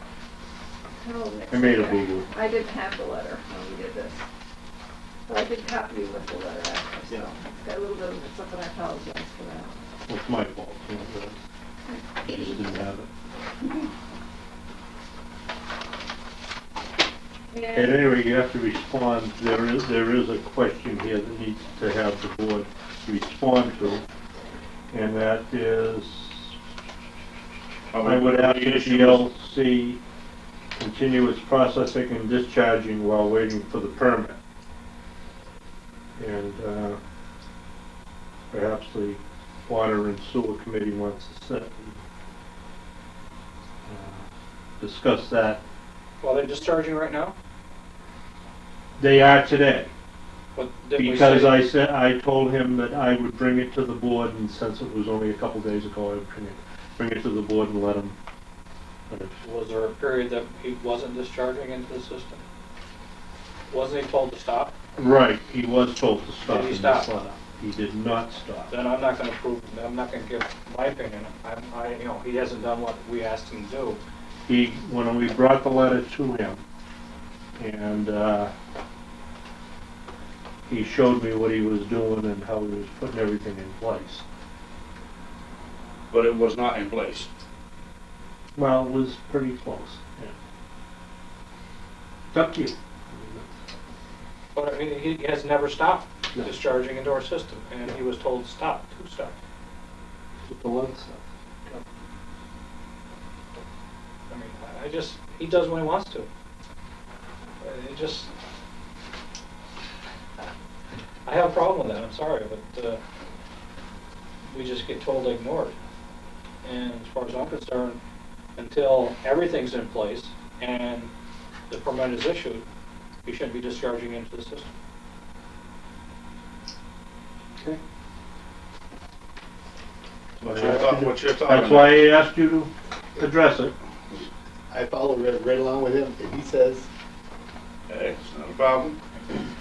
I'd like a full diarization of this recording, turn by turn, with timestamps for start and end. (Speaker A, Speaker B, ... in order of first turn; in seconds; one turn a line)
Speaker A: 1.0-4.2
Speaker B: 1.5-2.3
Speaker A: 5.3-9.8
Speaker B: 10.1-11.4
Speaker B: 12.2-13.1
Speaker A: 17.5-18.0
Speaker B: 17.7-24.0
Speaker B: 24.9-26.5
Speaker C: 27.9-29.2
Speaker B: 28.0-30.0
Speaker B: 30.8-34.4
Speaker B: 36.2-37.0
Speaker B: 38.5-42.0
Speaker B: 43.8-44.2
Speaker B: 44.8-45.6
Speaker D: 46.2-47.4
Speaker B: 49.0-49.9
Speaker D: 50.5-51.7
Speaker B: 51.0-58.2
Speaker B: 59.1-59.4
Speaker D: 59.4-62.4
Speaker D: 63.7-64.7
Speaker B: 65.0-68.7
Speaker D: 66.4-67.1
Speaker D: 68.7-74.0
Speaker B: 74.5-76.6
Speaker B: 77.6-78.5
Speaker B: 80.7-84.2
Speaker C: 86.1-87.3
Speaker B: 88.5-90.3
Speaker B: 92.3-93.5
Speaker D: 94.5-99.3
Speaker B: 100.4-101.2
Speaker D: 104.3-106.3
Speaker D: 107.6-108.3
Speaker D: 111.2-113.0
Speaker D: 114.5-115.7
Speaker D: 116.6-118.0
Speaker D: 118.6-121.1
Speaker D: 121.7-122.7
Speaker D: 123.2-124.7
Speaker C: 130.4-132.0
Speaker B: 130.4-133.7
Speaker E: 134.7-136.9
Speaker C: 137.9-139.0